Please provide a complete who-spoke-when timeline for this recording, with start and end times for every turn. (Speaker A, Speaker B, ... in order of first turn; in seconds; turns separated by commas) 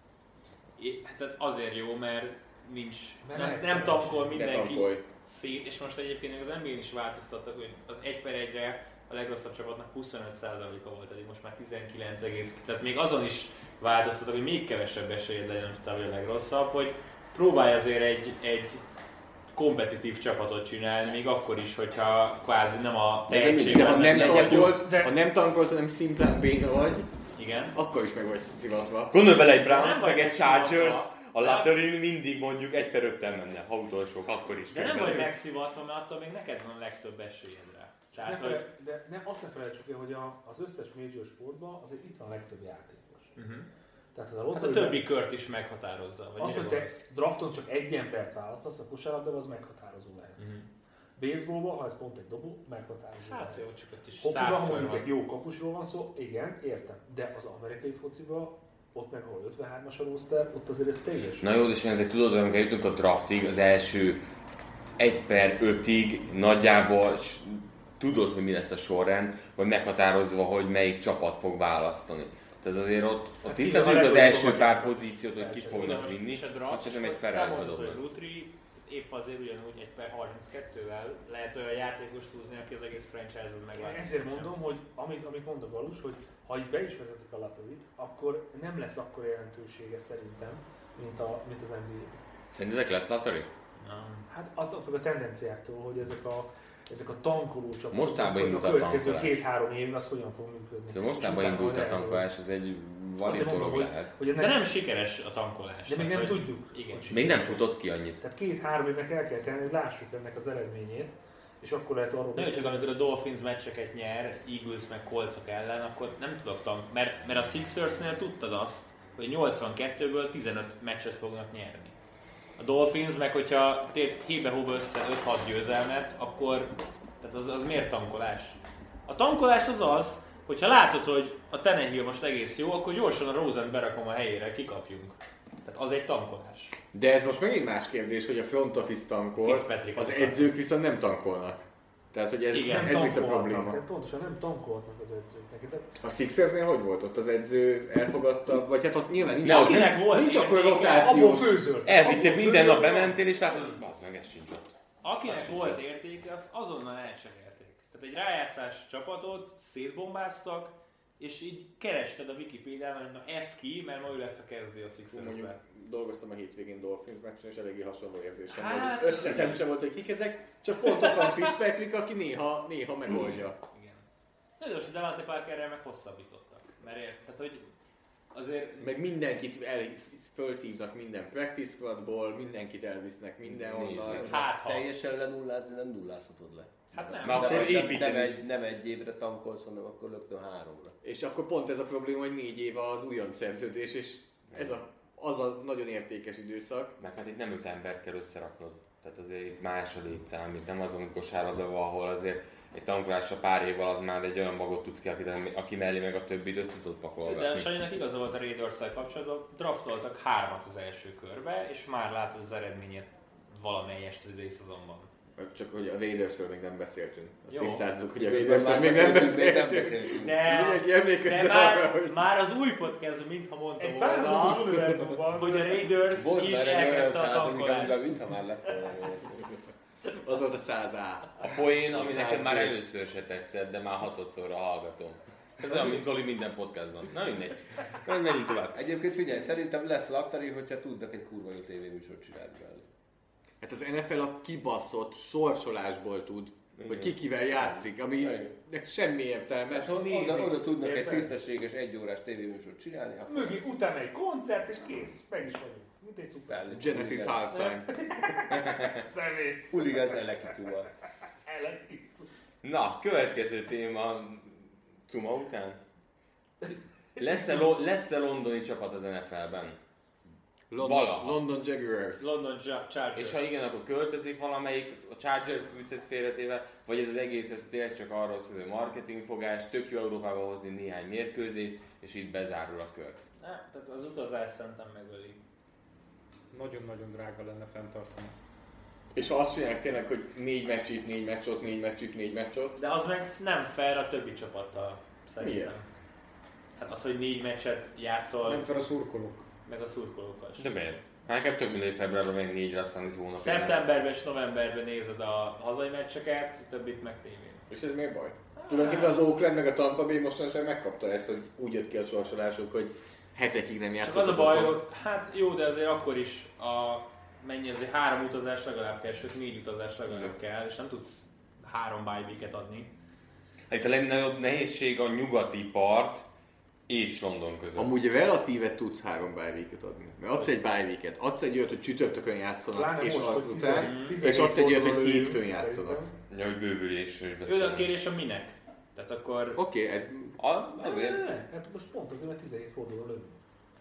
Speaker A: 0.8-18.8, Speaker B: 3.2-4.3, Speaker C: 4.3-5.0, Speaker A: 19.5-24.8, Speaker D: 23.3-24.8, Speaker C: 23.6-27.1, Speaker B: 24.8-25.1, Speaker A: 27.4-27.8, Speaker C: 27.7-29.1, Speaker E: 29.1-35.3, Speaker A: 29.5-31.7, Speaker A: 34.7-38.6, Speaker B: 38.2-43.4, Speaker A: 43.4-43.7, Speaker B: 44.1-45.0, Speaker A: 44.5-47.0, Speaker B: 46.4-50.5, Speaker A: 50.4-50.7, Speaker B: 51.2-53.6, Speaker A: 53.3-55.1, Speaker B: 54.2-61.5, Speaker E: 61.4-64.2, Speaker E: 65.0-78.0, Speaker B: 73.5-75.9, Speaker A: 75.7-84.5, Speaker B: 83.7-92.2, Speaker E: 92.5-93.5, Speaker A: 93.8-94.2, Speaker B: 94.3-102.2, Speaker E: 97.9-99.4, Speaker E: 100.9-104.1, Speaker B: 103.2-104.7, Speaker A: 104.3-107.1, Speaker B: 105.8-107.6, Speaker E: 107.1-108.2, Speaker B: 108.2-112.8, Speaker A: 112.3-122.0, Speaker A: 122.6-136.7, Speaker C: 136.9-141.6, Speaker A: 139.4-140.5, Speaker C: 142.1-143.8, Speaker A: 142.5-143.2, Speaker B: 142.6-145.9, Speaker C: 146.0-151.6, Speaker E: 149.4-150.1, Speaker A: 149.4-151.4, Speaker B: 150.8-153.2, Speaker E: 151.8-155.8, Speaker A: 155.0-165.6, Speaker C: 165.1-173.6, Speaker A: 168.5-169.6, Speaker A: 170.9-171.5, Speaker A: 173.1-174.1, Speaker A: 174.6-177.7, Speaker A: 178.3-178.9, Speaker C: 178.8-184.4, Speaker D: 183.4-190.9, Speaker A: 184.1-184.9, Speaker A: 186.9-188.0, Speaker E: 187.2-188.4, Speaker C: 191.0-196.9, Speaker E: 197.0-207.8, Speaker A: 207.2-215.1, Speaker C: 215.4-222.2, Speaker A: 217.5-217.8, Speaker D: 218.2-220.3, Speaker A: 220.1-228.2, Speaker B: 223.8-225.8, Speaker D: 226.1-229.5, Speaker C: 230.0-232.7, Speaker E: 231.4-238.8, Speaker D: 235.7-236.0, Speaker D: 238.7-242.8, Speaker C: 243.6-250.7, Speaker E: 246.8-247.1, Speaker D: 248.2-248.5, Speaker D: 249.7-253.6, Speaker B: 250.8-251.2, Speaker B: 253.2-256.7, Speaker D: 256.5-257.5, Speaker C: 256.7-258.9, Speaker B: 257.5-260.5, Speaker D: 259.7-260.9, Speaker B: 261.4-262.3, Speaker E: 262.6-265.8, Speaker E: 267.2-269.8, Speaker C: 270.7-272.3, Speaker E: 270.8-271.4, Speaker A: 272.2-273.5, Speaker E: 273.1-283.2, Speaker A: 283.4-285.4, Speaker F: 286.5-288.3, Speaker C: 289.1-292.8, Speaker A: 292.8-295.9, Speaker C: 295.4-295.7, Speaker A: 296.8-298.7, Speaker F: 298.4-299.5, Speaker A: 299.6-300.7, Speaker E: 300.6-303.8, Speaker A: 303.3-307.6, Speaker C: 307.7-314.8, Speaker A: 308.6-309.2, Speaker A: 314.0-322.9, Speaker C: 320.1-320.3, Speaker E: 323.7-326.2, Speaker E: 326.9-327.9, Speaker C: 327.8-336.0, Speaker B: 332.7-336.1, Speaker A: 333.8-334.3, Speaker E: 336.3-337.9, Speaker A: 337.4-339.6, Speaker C: 339.6-340.4, Speaker E: 340.4-341.4, Speaker B: 340.8-343.4